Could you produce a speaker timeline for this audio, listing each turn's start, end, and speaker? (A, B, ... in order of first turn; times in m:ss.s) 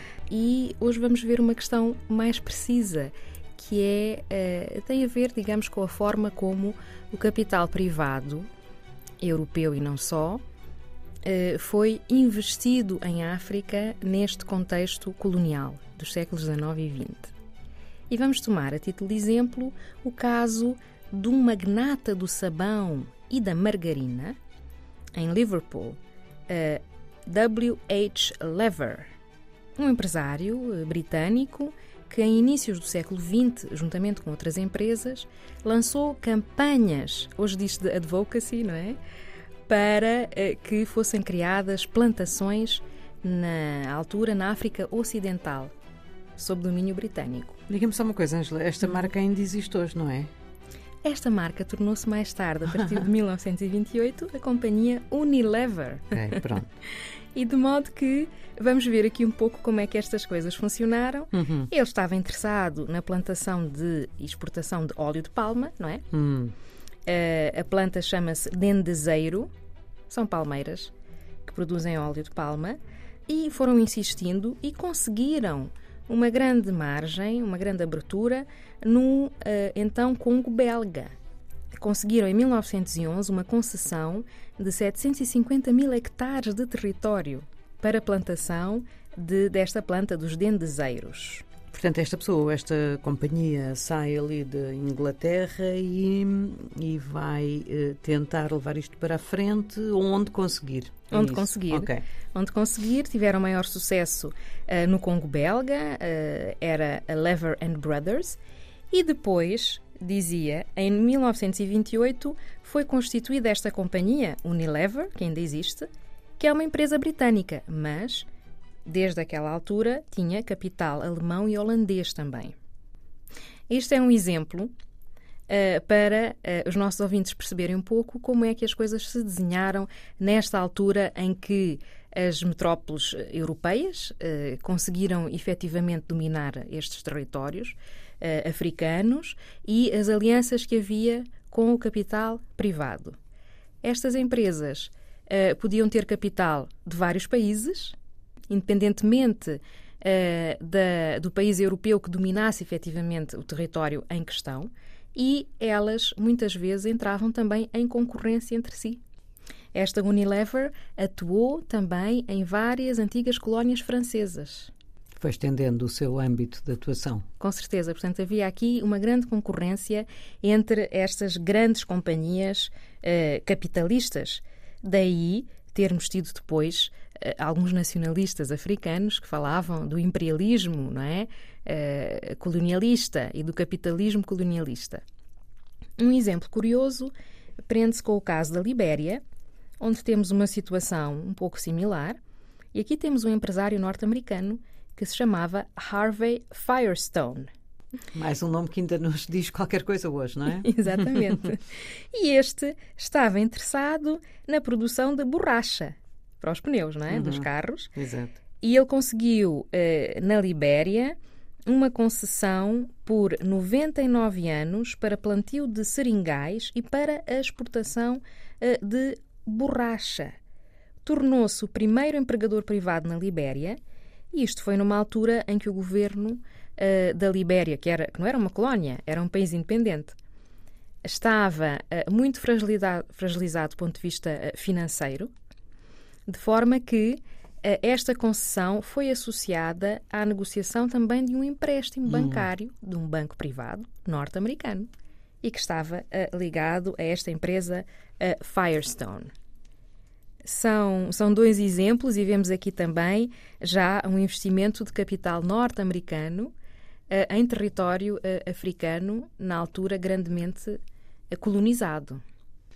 0:00.3-0:08.5 A
0:09.2-0:10.4 A
0:11.2-0:17.3 A
0:18.1-0:24.4 A
0:25.1-0:29.1 A
0:29.8-0:39.0 A
0:39.7-0:45.7 A
0:46.4-0:47.6 A
0:47.7-0:50.3 B
0:51.0-0:56.4 A
0:52.8-0:53.0 B
0:56.1-0:56.7 B
0:57.3-1:06.0 A
1:01.3-1:01.7 B
1:06.1-1:06.5 B
1:07.0-1:09.5 A
1:10.1-1:10.9 A
1:11.4-1:21.1 A
1:21.7-1:31.4 A
1:31.7-1:42.0 B
1:41.1-1:48.4 A
1:48.9-1:58.3 A
1:58.8-2:02.5 A
2:03.7-2:04.7 A
2:05.5-2:23.2 A
2:23.8-2:28.0 A
2:28.5-2:39.0 A
2:39.7-2:44.7 A
2:45.2-2:47.2 B
2:47.4-3:05.0 A
3:06.0-3:07.1 A
3:07.7-3:09.2 A
3:09.8-3:12.2 A
3:12.7-3:17.5 A
3:18.1-3:21.3 B
3:20.6-3:27.9 A
3:27.1-3:28.4 B
3:28.6-3:31.2 A
3:31.7-3:40.3 A
3:41.0-3:43.8 A
3:44.3-3:50.2 A
3:51.0-3:55.3 A
3:56.3-4:04.9 A
4:02.1-4:02.4 B
4:05.4-4:09.3 A
4:10.4-4:16.5 A
4:17.1-4:22.2 A